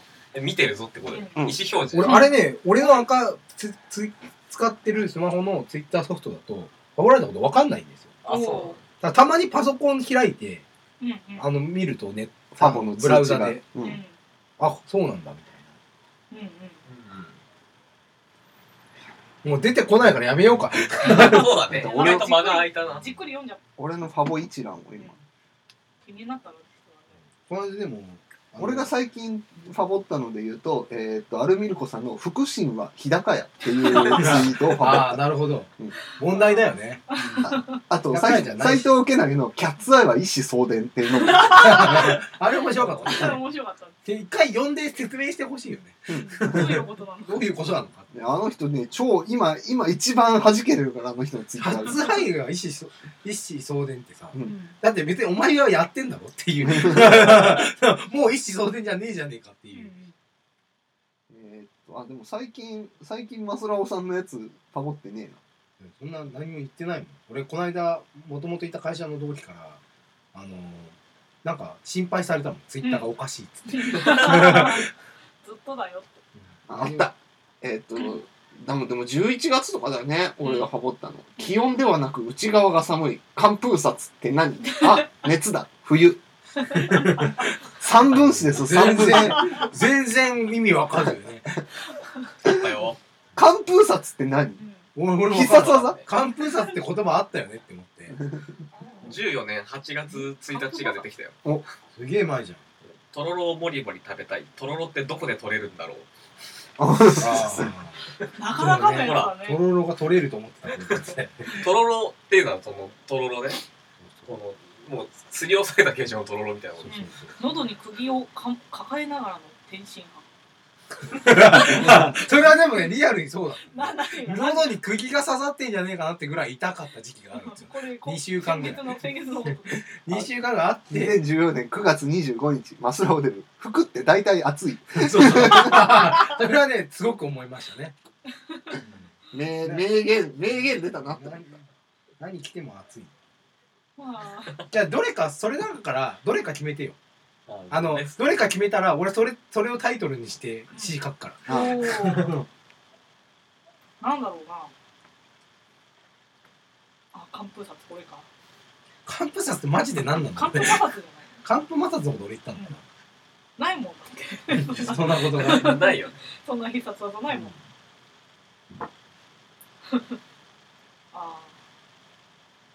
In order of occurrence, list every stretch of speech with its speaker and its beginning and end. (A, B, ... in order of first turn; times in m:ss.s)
0:00.3-0:02.3 A
0:01.1-0:01.5 B
0:01.9-0:08.2 C
0:02.0-0:03.1 B
0:08.2-0:08.8 A
0:08.3-0:08.8 B
0:09.0-0:10.6 C
0:11.0-0:11.5 B
0:11.4-0:13.6 C
0:12.5-0:14.0 D
0:13.8-0:14.2 B
0:14.6-0:15.6 C
0:16.3-0:16.8 B
0:16.9-0:17.4 A
0:19.4-0:21.6 C
0:20.9-0:23.1 A
0:21.1-0:23.6 B
0:21.7-0:22.3 D
0:23.8-0:25.1 D
0:26.0-0:27.2 B
0:27.5-0:28.9 C
0:28.6-0:35.2 D
0:34.0-0:34.2 B
0:34.0-0:37.5 C
0:36.2-0:37.8 B
0:37.4-0:42.1 D
0:38.1-0:38.9 C
0:41.1-0:44.1 B
0:41.4-0:43.4 C
0:44.1-0:48.1 C
0:46.1-0:46.7 D
0:46.1-0:47.5 B
0:48.1-0:52.1 D
0:51.6-0:59.9 C
0:54.4-0:54.8 B
0:56.6-0:57.6 D
0:59.7-1:00.2 B
1:01.3-1:05.4 D
1:05.8-1:09.8 C
1:10.3-1:14.8 C
1:12.8-1:13.1 B
1:13.7-1:16.2 B
1:16.4-1:17.1 C
1:16.7-1:26.2 D
1:20.4-1:20.7 B
1:24.6-1:25.1 B
1:26.6-1:27.4 B
1:26.8-1:27.5 C
1:27.8-1:29.6 D
1:28.1-1:31.6 C
1:29.4-1:29.6 B
1:31.9-1:32.3 B
1:32.4-1:33.0 A
1:33.4-1:34.6 D
1:34.6-1:34.9 B
1:35.0-1:38.2 C
1:35.3-1:36.0 D
1:35.4-1:36.1 A
1:36.2-1:36.8 B
1:38.1-1:38.5 D
1:38.7-1:39.2 B
1:39.0-1:41.4 A
1:40.1-1:41.0 B
1:42.0-1:42.6 C
1:43.1-1:46.1 A
1:46.8-1:47.7 D
1:47.2-1:48.0 C
1:48.4-1:49.6 B
1:48.6-1:51.6 C
1:48.9-1:49.4 A
1:50.7-1:53.6 A
1:54.0-1:54.3 C
1:54.3-1:57.1 A
1:56.8-1:57.4 C
1:56.9-2:00.3 B
2:01.1-2:11.1 C
2:01.5-2:01.8 B
2:01.9-2:02.1 D
2:03.6-2:04.8 B
2:07.3-2:09.9 B
2:10.9-2:16.0 D
2:15.0-2:18.0 C
2:15.7-2:16.2 B
2:18.5-2:18.8 B
2:18.8-2:21.6 C
2:19.3-2:21.5 D
2:22.2-2:23.1 C
2:24.0-2:24.6 B
2:24.7-2:27.0 C
2:27.5-2:28.2 A
2:27.7-2:32.4 C
2:31.5-2:31.7 D
2:31.5-2:32.4 B
2:34.0-2:34.7 B
2:37.1-2:38.3 B
2:39.1-2:40.8 C
2:40.3-2:41.3 B
2:41.4-2:42.8 C
2:43.6-2:47.5 B
2:44.5-2:45.8 C
2:45.4-2:46.2 A
2:49.9-2:50.2 B
2:51.1-2:51.5 B